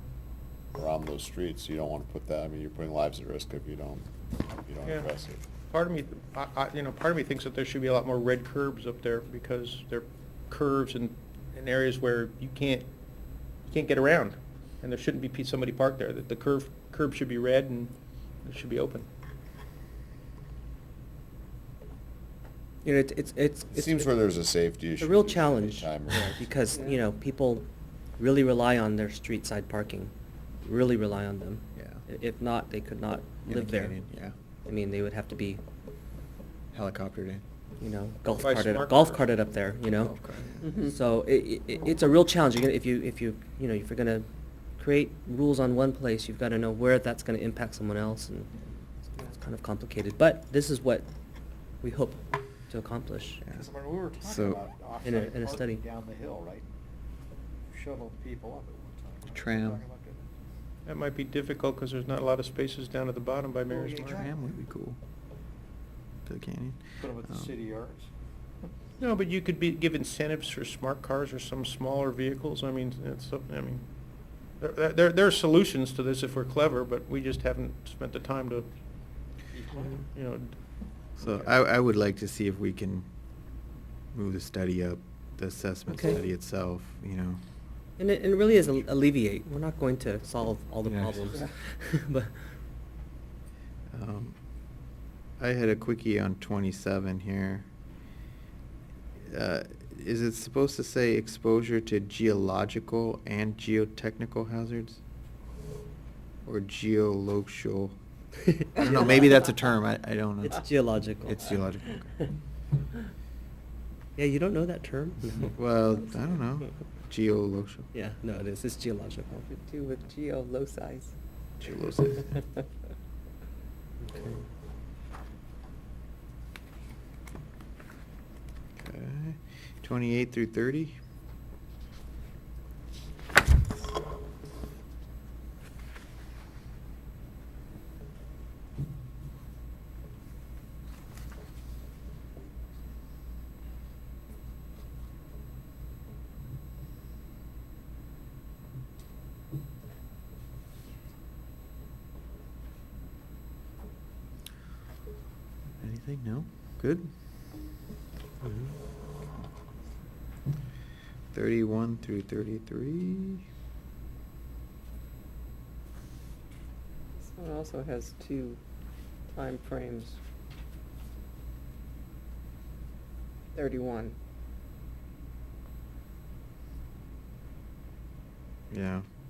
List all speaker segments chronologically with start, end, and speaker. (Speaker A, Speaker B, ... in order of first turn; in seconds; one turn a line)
Speaker A: 0.7-4.0
Speaker A: 4.6-5.4
Speaker B: 5.7-12.8
Speaker B: 13.7-17.9
Speaker B: 18.4-19.1
Speaker C: 22.8-24.3
Speaker A: 23.7-26.6
Speaker C: 25.0-27.6
Speaker D: 26.7-27.0
Speaker C: 28.2-30.1
Speaker C: 30.6-34.0
Speaker E: 31.8-32.0
Speaker E: 33.5-34.3
Speaker C: 34.6-35.6
Speaker E: 36.7-37.4
Speaker C: 37.8-40.1
Speaker B: 38.3-39.3
Speaker E: 39.9-40.7
Speaker D: 40.6-41.0
Speaker C: 40.8-44.3
Speaker C: 44.8-51.1
Speaker C: 51.8-53.4
Speaker F: 53.5-56.6
Speaker E: 54.2-54.6
Speaker C: 55.0-55.8
Speaker F: 57.7-60.3
Speaker E: 59.3-59.8
Speaker B: 60.9-64.2
Speaker F: 63.7-64.3
Speaker E: 64.1-65.0
Speaker E: 66.2-67.5
Speaker F: 67.0-68.1
Speaker B: 69.0-73.8
Speaker B: 74.6-78.7
Speaker F: 79.5-80.0
Speaker B: 80.1-80.5
Speaker E: 81.2-83.0
Speaker B: 81.2-81.5
Speaker E: 84.1-87.4
Speaker C: 85.9-86.2
Speaker C: 88.0-92.4
Speaker E: 90.8-91.2
Speaker E: 93.9-94.4
Speaker E: 95.4-97.7
Speaker E: 99.2-105.0
Speaker E: 106.4-108.0
Speaker C: 108.5-109.4
Speaker E: 108.7-112.3
Speaker C: 110.4-111.6
Speaker C: 114.2-115.5
Speaker E: 115.4-117.9
Speaker C: 117.9-119.4
Speaker D: 119.3-121.1
Speaker E: 121.6-122.4
Speaker C: 124.0-124.4
Speaker E: 128.8-131.0
Speaker E: 155.8-157.1
Speaker C: 158.4-158.7
Speaker E: 161.3-163.4
Speaker D: 167.2-168.6
Speaker D: 169.3-170.2
Speaker D: 173.5-174.1
Speaker E: 178.7-179.0